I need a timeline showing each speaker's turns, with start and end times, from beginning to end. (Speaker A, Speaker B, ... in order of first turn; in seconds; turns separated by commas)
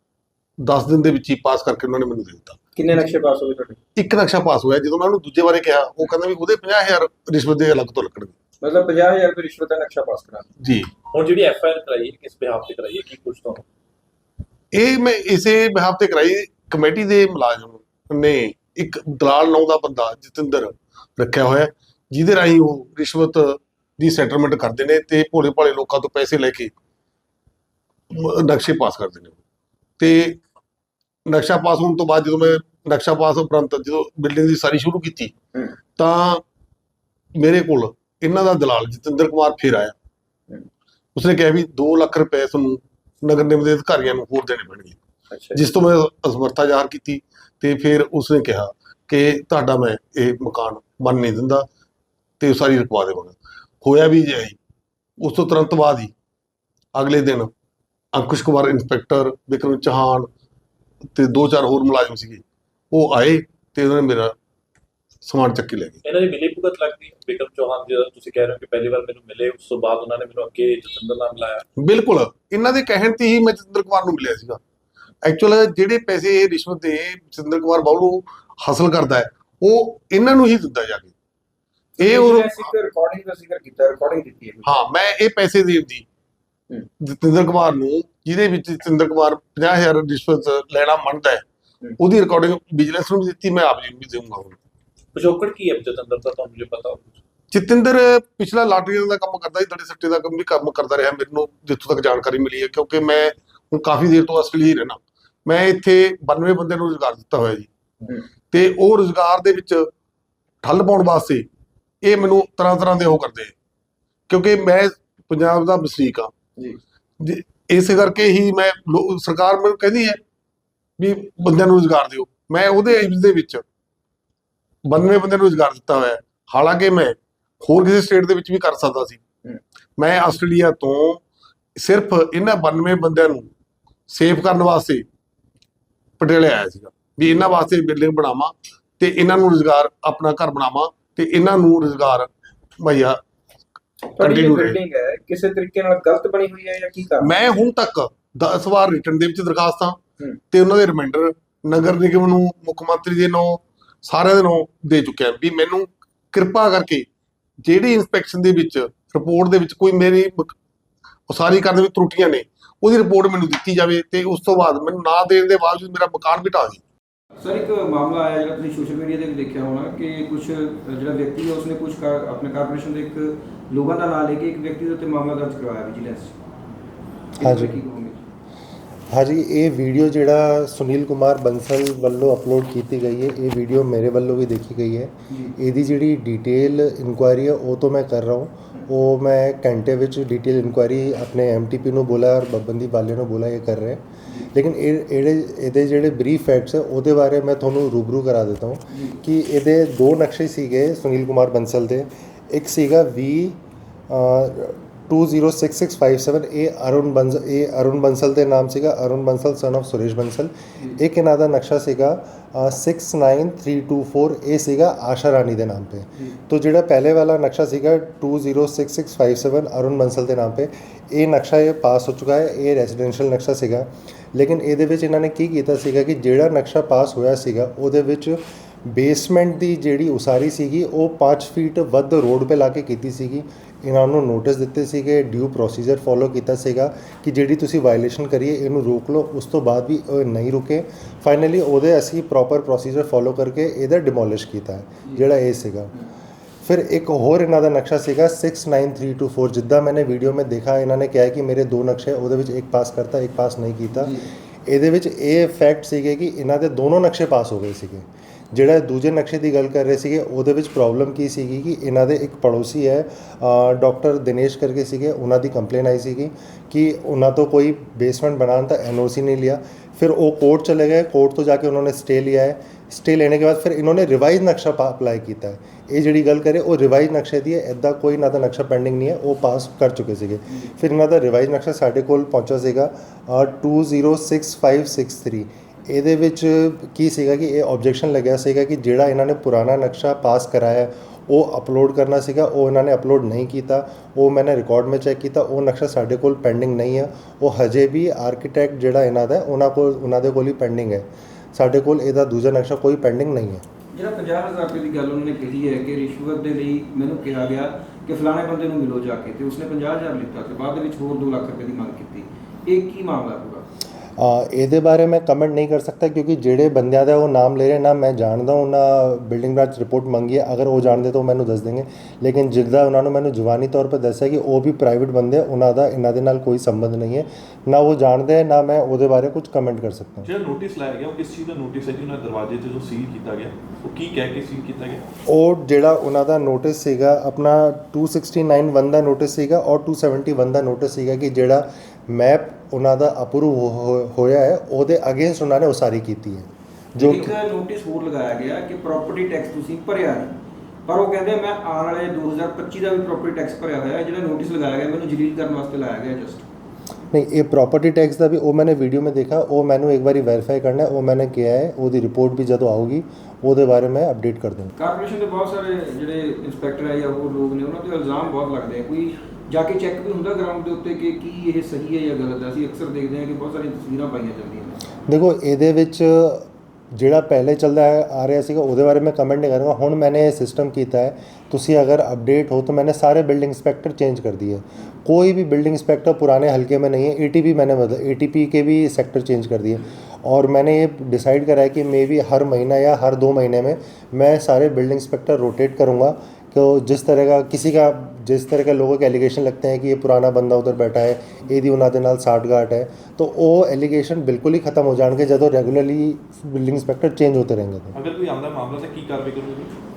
Speaker A: 0.6-2.6, Speaker B: 2.8-3.8, Speaker A: 4.0-8.3, Speaker B: 8.6-10.5, Speaker A: 10.6-10.9, Speaker C: 11.1-13.6, Speaker A: 14.7-26.7, Speaker A: 28.1-29.4, Speaker A: 30.0-30.4, Speaker A: 31.2-35.3, Speaker A: 36.0-36.4, Speaker A: 37.4-39.9, Speaker A: 41.1-45.0, Speaker B: 45.3-45.6, Speaker A: 45.5-51.7, Speaker A: 52.4-54.6, Speaker A: 55.2-56.1, Speaker A: 56.9-57.5, Speaker A: 58.1-60.3, Speaker A: 61.1-64.3, Speaker A: 65.2-66.0, Speaker C: 66.0-71.7, Speaker A: 71.8-74.6, Speaker A: 75.2-81.1, Speaker A: 82.0-82.7, Speaker B: 82.0-84.7, Speaker A: 84.6-86.0, Speaker A: 87.0-91.4, Speaker A: 92.0-94.6, Speaker C: 95.1-97.2, Speaker A: 97.5-107.7, Speaker A: 108.5-109.9, Speaker A: 110.6-111.5, Speaker A: 112.0-113.5, Speaker A: 114.3-116.3, Speaker A: 117.2-120.2, Speaker A: 121.0-123.6, Speaker A: 124.8-129.2, Speaker A: 130.0-131.2, Speaker A: 131.8-133.5, Speaker A: 134.1-135.1, Speaker A: 136.2-143.2, Speaker B: 144.1-147.3, Speaker A: 144.2-144.8, Speaker A: 147.2-150.0, Speaker A: 150.5-157.1, Speaker A: 157.6-160.5, Speaker A: 161.3-166.8, Speaker B: 167.4-176.3, Speaker B: 177.4-178.2, Speaker D: 177.4-177.8, Speaker D: 179.1-245.9, Speaker D: 246.6-303.6, Speaker B: 253.9-254.3, Speaker B: 303.9-313.6, Speaker D: 314.2-330.3, Speaker E: 330.2-335.0, Speaker D: 335.3-347.3, Speaker B: 347.0-350.3, Speaker B: 350.9-356.4, Speaker D: 357.1-364.7, Speaker B: 364.8-374.8, Speaker D: 375.1-407.9, Speaker E: 407.9-409.7